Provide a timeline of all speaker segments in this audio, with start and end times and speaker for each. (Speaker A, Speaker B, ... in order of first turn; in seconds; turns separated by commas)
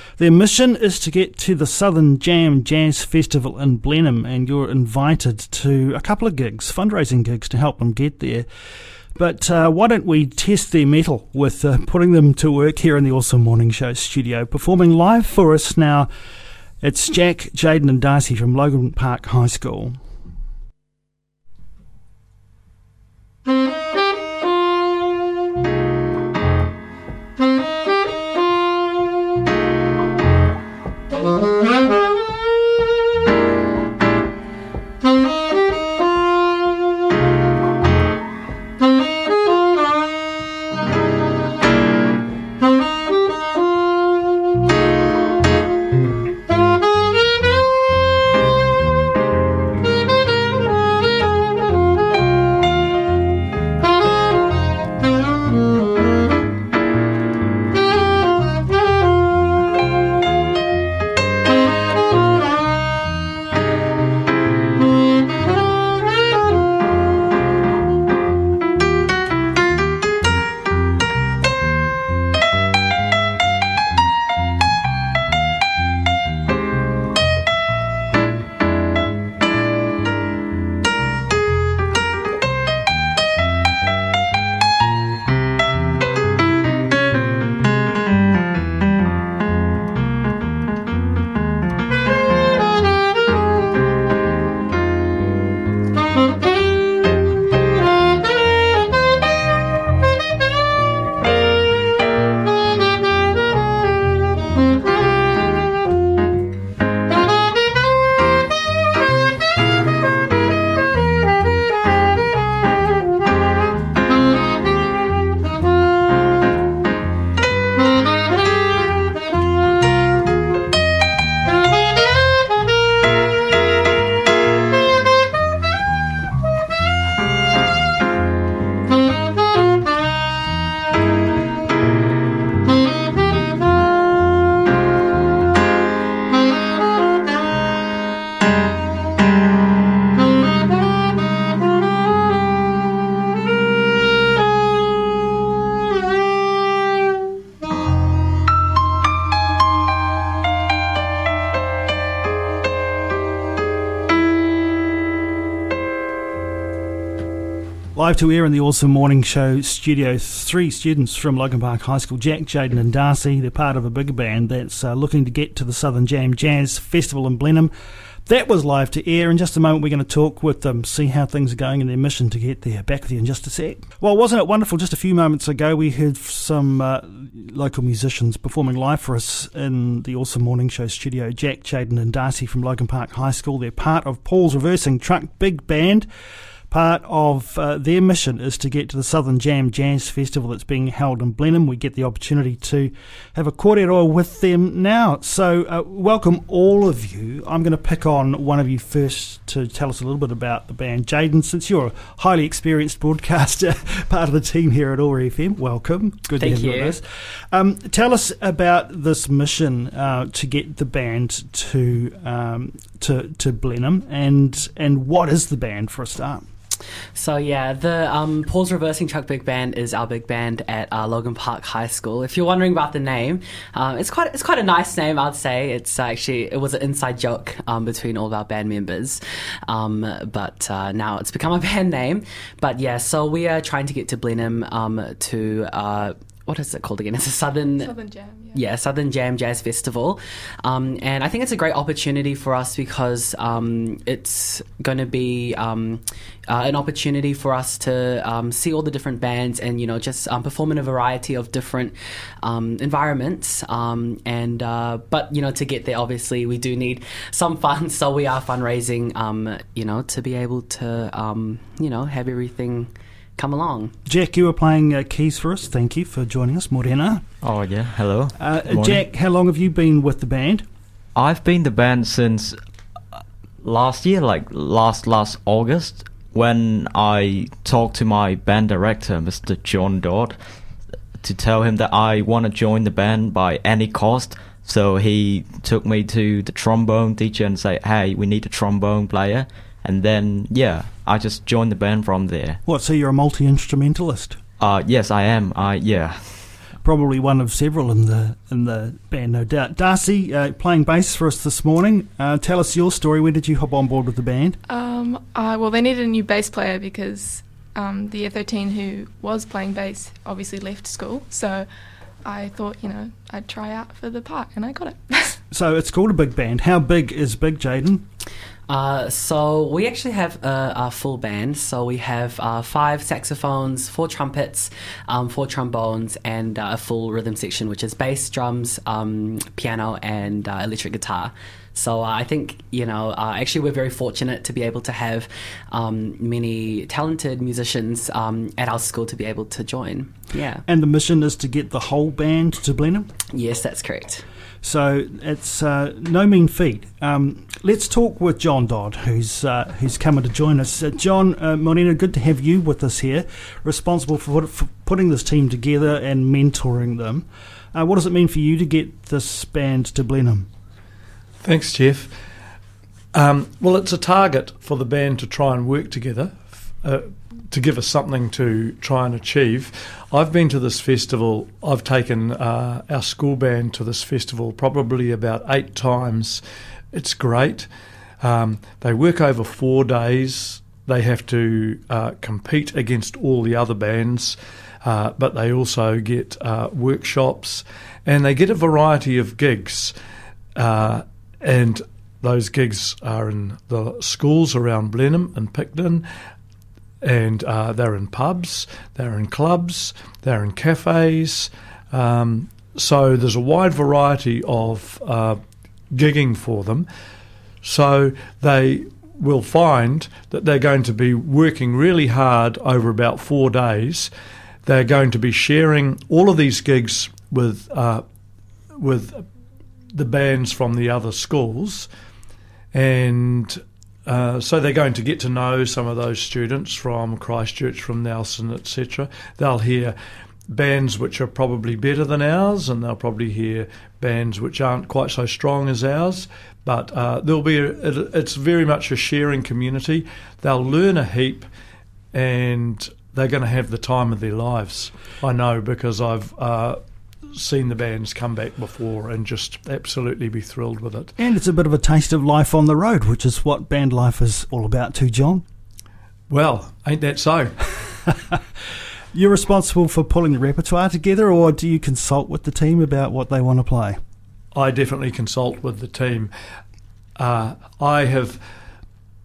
Speaker A: 0.2-8.5, Speaker A: 9.2-16.1, Speaker A: 16.8-20.0, Speaker A: 157.9-167.7, Speaker A: 168.3-186.1, Speaker A: 186.7-216.4, Speaker B: 206.4-207.0, Speaker B: 217.1-237.9, Speaker C: 237.8-238.6, Speaker B: 238.5-263.9, Speaker A: 264.1-267.2, Speaker D: 267.4-269.0, Speaker A: 268.4-270.6, Speaker D: 271.1-272.6, Speaker D: 273.6-280.4, Speaker D: 281.2-292.6, Speaker A: 292.7-294.4, Speaker D: 294.6-296.5, Speaker A: 296.8-304.6, Speaker C: 304.7-311.7, Speaker C: 312.2-315.4, Speaker A: 315.5-318.0, Speaker B: 318.7-340.6, Speaker A: 340.7-343.1, Speaker B: 343.3-344.2, Speaker A: 344.6-360.5, Speaker E: 361.4-362.2, Speaker E: 363.1-377.7, Speaker E: 378.2-389.9, Speaker E: 390.6-396.1, Speaker E: 397.0-405.4, Speaker E: 405.9-406.9, Speaker E: 407.6-414.1, Speaker E: 414.7-418.0, Speaker E: 418.8-419.2, Speaker E: 419.9-421.9, Speaker E: 422.7-430.0, Speaker E: 430.5-441.5, Speaker E: 442.1-446.8, Speaker E: 447.4-451.1, Speaker A: 451.2-455.4, Speaker E: 456.3-457.7, Speaker A: 459.1-464.0, Speaker E: 464.5-466.3, Speaker E: 467.2-468.4